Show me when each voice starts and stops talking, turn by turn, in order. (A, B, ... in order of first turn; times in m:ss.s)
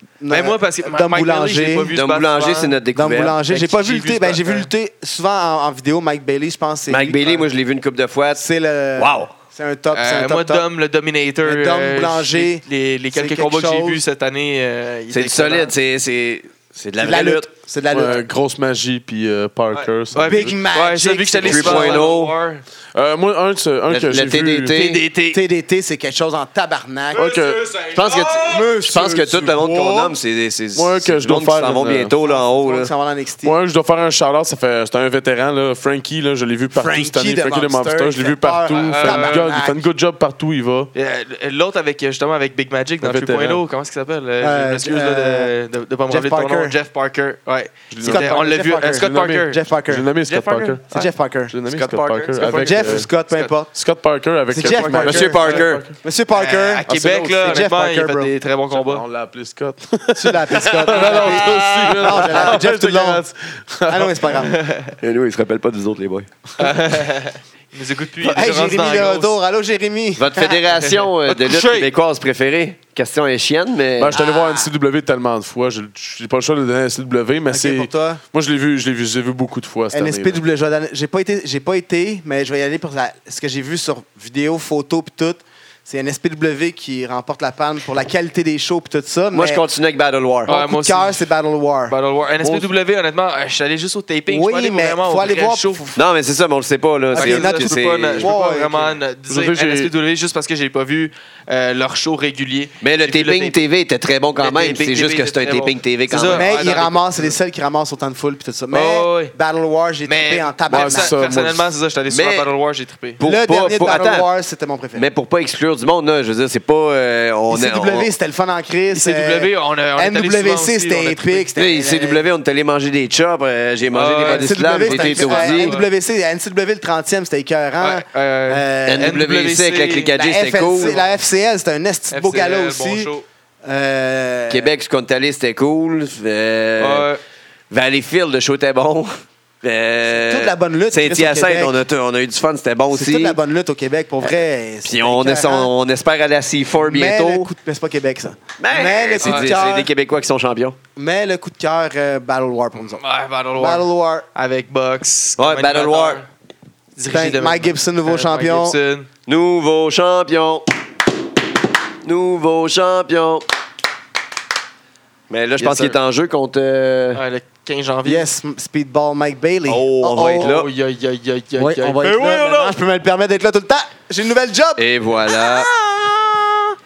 0:00.2-0:01.9 A
0:00.3-0:02.8 B
0:01.9-0:03.4 C
0:02.9-0:07.4 A
0:03.5-0:04.7 B
0:06.9-0:08.4 C
0:08.3-0:10.7 A
0:09.0-0:09.3 C
0:09.9-0:15.7 B
0:11.4-0:12.6 A
0:13.1-0:14.0 A
0:15.1-0:17.5 C
0:17.0-0:18.2 A
0:17.9-0:20.5 D
0:19.7-0:22.6 B
0:20.2-0:22.0 A
0:21.4-0:22.3 C
0:22.9-0:24.8 D
0:23.9-0:25.0 C
0:24.7-0:25.4 B
0:25.3-0:27.2 A
0:27.1-0:28.7 B
0:27.1-0:27.6 D
0:27.9-0:32.9 C
0:28.4-0:29.2 A
0:29.0-0:30.1 D
0:30.8-0:32.1 D
0:32.2-0:33.6 A
0:33.4-0:40.9 D
0:36.7-0:39.8 A
0:38.8-0:39.4 B
0:40.9-0:49.6 B
0:43.0-0:43.6 D
0:44.4-0:45.5 A
0:46.1-0:46.8 A
0:47.9-0:48.3 D
0:48.0-0:50.1 A
0:48.9-0:50.8 D
0:50.2-0:51.1 B
0:50.9-0:51.6 A
0:51.5-0:53.1 D
0:51.7-0:52.8 C
0:52.0-0:53.6 B
0:52.4-0:53.7 A
0:53.7-0:56.0 D
0:54.5-0:58.3 A
0:54.6-0:55.6 B
0:55.0-0:55.8 C
0:56.3-0:59.0 B
0:56.9-0:57.6 D
0:58.7-1:04.4 D
1:00.1-1:03.2 A
1:00.6-1:02.6 B
1:01.9-1:02.4 C
1:03.9-1:04.5 A
1:04.3-1:05.0 B
1:05.0-1:06.3 C
1:06.6-1:09.4 B
1:08.2-1:10.6 A
1:10.2-1:14.2 C
1:10.7-1:11.9 B
1:14.0-1:20.4 D
1:14.1-1:14.7 A
1:17.5-1:18.2 A
1:19.9-1:29.6 A
1:29.3-1:30.5 C
1:30.4-1:31.3 B
1:30.5-1:31.9 A
1:31.9-1:36.0 B
1:32.4-1:32.7 D
1:34.3-1:36.0 A
1:36.0-1:38.3 C
1:37.1-1:39.0 A
1:37.1-1:43.6 B
1:39.3-1:39.9 D
1:42.8-1:46.5 C
1:44.4-1:47.3 B
1:46.3-1:51.2 A
1:48.7-1:49.3 B
1:50.0-1:53.2 B
1:50.7-1:51.7 D
1:52.1-1:52.5 C
1:53.2-1:54.3 C
1:53.2-1:55.1 A
1:54.9-1:58.1 C
1:57.5-2:02.2 A
1:58.9-2:01.5 B
2:01.6-2:05.8 C
2:03.9-2:05.9 B
2:04.3-2:09.2 A
2:07.8-2:10.2 B
2:08.9-2:11.0 C
2:10.1-2:13.1 A
2:12.1-2:13.2 B
2:13.6-2:14.7 A
2:14.5-2:17.1 C
2:16.8-2:17.2 B
2:17.7-2:19.1 C
2:19.6-2:23.4 C
2:20.3-2:21.7 A
2:22.9-2:25.7 A
2:24.8-2:27.5 C
2:26.8-2:29.9 A
2:28.6-2:30.8 C
2:29.2-2:29.6 B
2:31.0-2:33.0 A
2:33.0-2:36.3 B
2:33.6-2:34.3 A
2:35.4-2:36.2 C
2:37.0-2:39.1 B
2:37.1-2:38.8 A
2:39.3-2:40.6 C
2:42.0-2:43.4 C
2:45.3-2:47.2 C
2:45.6-2:46.0 B
2:47.1-2:48.3 B
2:48.0-2:50.5 A
2:49.7-2:50.7 C
2:50.4-2:52.7 B
2:51.6-2:56.7 A
2:54.8-2:55.7 C